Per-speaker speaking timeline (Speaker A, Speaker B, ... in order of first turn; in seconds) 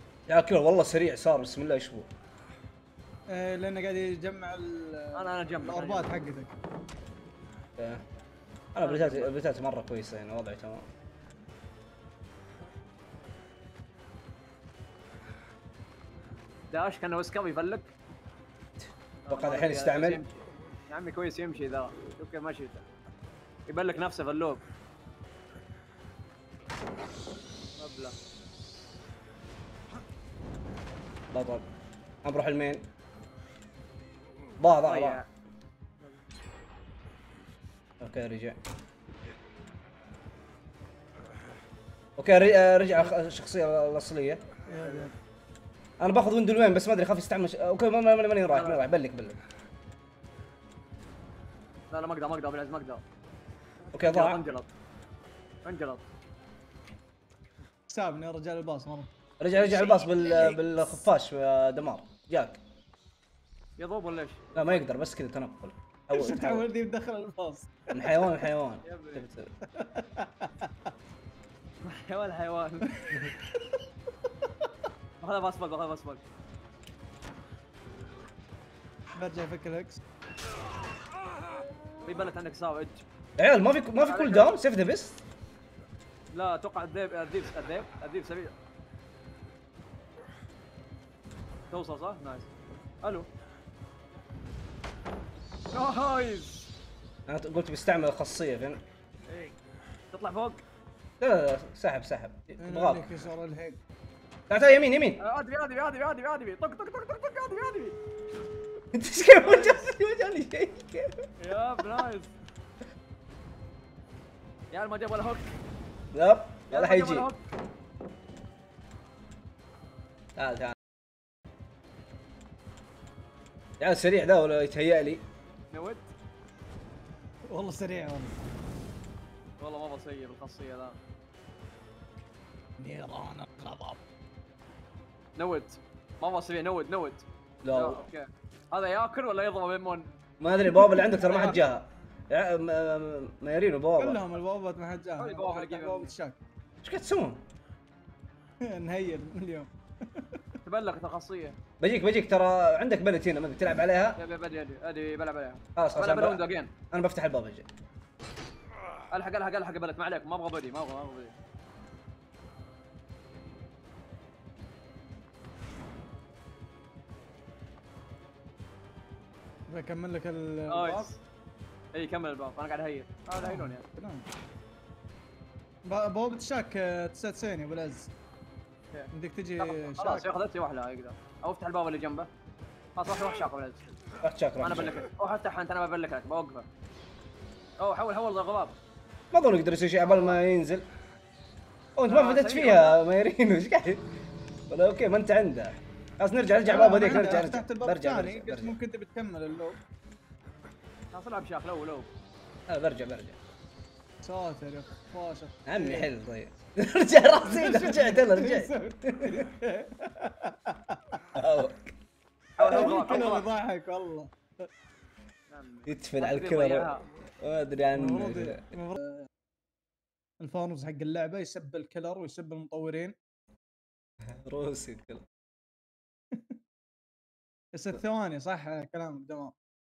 Speaker A: 0.3-2.1, 7.8-8.0, 8.8-10.9, 19.3-20.2, 31.3-31.6, 32.2-32.8, 34.6-35.2, 38.0-38.6, 42.2-44.4, 46.0-49.4, 53.9-54.4, 59.4-62.6, 64.5-66.7, 67.9-69.5, 83.4-85.2, 97.3-98.8, 101.2-103.1, 104.5-105.2, 108.9-111.3, 116.1-117.3, 120.4-120.8, 123.8-125.2, 137.6-138.1, 140.4-144.2, 146.8-147.4, 151.8-154.2, 155.8-157.7, 184.2-185.0, 189.3-190.8, 192.0-194.1, 194.7-198.8, 202.7-203.4, 205.7-209.5, 211.4-212.0, 215.9-218.6, 224.3-225.3
Speaker B: 3.3-6.5, 44.7-45.1, 57.9-59.1, 66.1-67.7, 69.7-70.9, 79.2-80.0, 102.6-103.8, 127.5-128.5, 132.8-134.0, 140.9-141.6, 144.0-146.4, 148.6-150.4, 169.7-171.1, 173.4-174.3, 175.9-178.1, 179.1-180.3, 196.6-199.8, 204.2-206.1, 207.5-211.2, 212.6-214.7, 217.9-219.3, 220.4-223.2, 226.3-226.6, 227.7-229.6
Speaker C: 5.2-6.1, 8.8-9.3, 16.7-17.9, 19.3-22.8, 23.7-24.6, 27.8-28.1, 34.9-35.3, 48.5-48.8, 51.9-53.0, 54.0-54.7, 55.6-56.1, 59.7-60.1, 63.8-64.8, 68.8-69.3, 71.8-73.2, 75.2-76.2, 82.0-83.0, 84.0-84.6, 86.3-88.5, 91.7-92.5, 95.7-96.7, 99.3-99.5, 100.1-100.6, 105.2-108.0, 109.3-109.9, 111.4-112.3, 114.7-115.6, 116.7-117.4, 125.7-126.1, 129.6-131.0, 135.4-140.1, 141.3-141.6, 145.2-146.1, 150.6-151.6, 154.2-156.7, 159.1-161.4, 170.7-171.2, 171.9-173.8, 178.9-182.3, 183.0-183.9, 184.6-186.7, 187.8-188.8, 190.0-190.4, 192.1-193.0, 201.1-202.1, 212.6-213.5, 215.5-217.0